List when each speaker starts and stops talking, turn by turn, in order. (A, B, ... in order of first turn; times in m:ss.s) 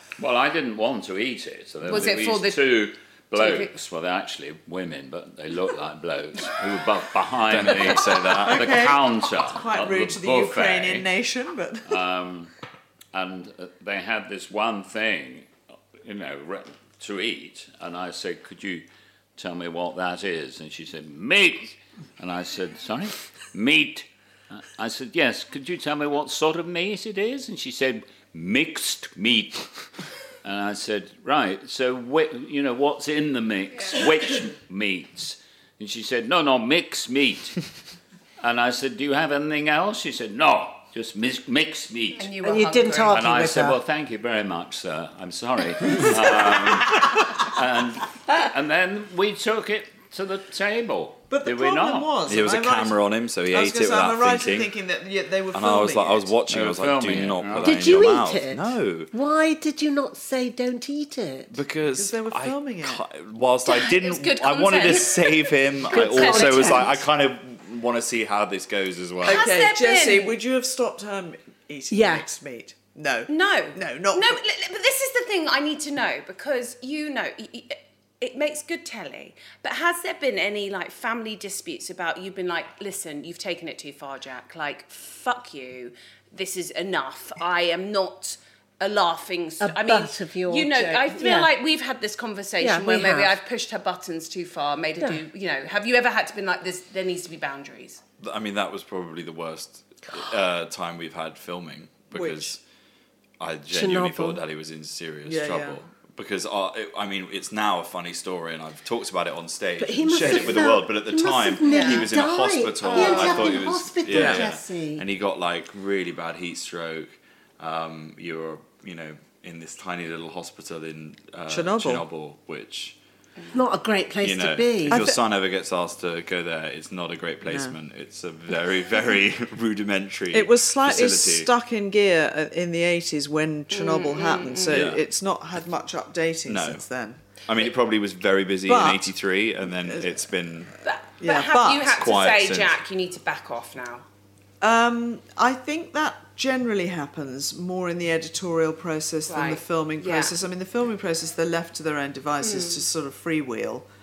0:00.2-0:11.1 A
0:01.9-0:02.7 B
0:03.3-0:03.7 B
0:07.5-0:08.7 C
0:08.3-0:12.0 D
0:11.9-0:12.5 A
0:13.1-0:15.5 A
0:16.0-0:18.8 A
0:19.4-0:29.7 A
0:30.4-0:37.6 A
0:38.4-0:42.3 A
0:42.2-0:43.2 B
0:42.4-0:43.8 E
0:43.1-0:52.1 A
0:51.3-0:56.3 D
0:52.3-0:54.7 C
0:55.5-0:59.1 C
0:56.5-0:57.9 A
0:57.6-1:01.6 E
1:01.5-1:09.4 C
1:01.9-1:03.0 D
1:03.6-1:06.9 B
1:05.9-1:07.0 E
1:09.2-1:14.4 D
1:09.2-1:10.4 B
1:11.9-1:12.3 E
1:13.3-1:38.0 B
1:29.6-1:31.5 E
1:32.6-1:33.4 E
1:38.2-1:42.6 C
1:42.1-1:42.6 D
1:43.4-2:03.0 C
1:43.7-1:44.4 E
1:45.2-1:45.8 D
1:49.8-1:55.0 E
1:50.2-1:50.6 D
1:51.7-1:52.1 B
1:52.9-1:53.4 B
1:53.0-1:53.4 D
1:54.1-1:54.5 D
2:01.5-2:02.0 D
2:03.5-2:05.1 E
2:04.2-2:11.5 C
2:04.9-2:05.2 D
2:07.4-2:07.8 D
2:10.3-2:17.2 D
2:13.7-2:14.7 B
2:14.7-2:15.0 C
2:16.4-2:20.7 C
2:18.6-2:19.1 D
2:19.8-2:20.1 D
2:20.8-2:24.0 B
2:21.2-2:21.9 D
2:21.8-2:22.8 C
2:24.6-2:33.9 D
2:29.2-2:30.4 B
2:32.4-2:32.8 B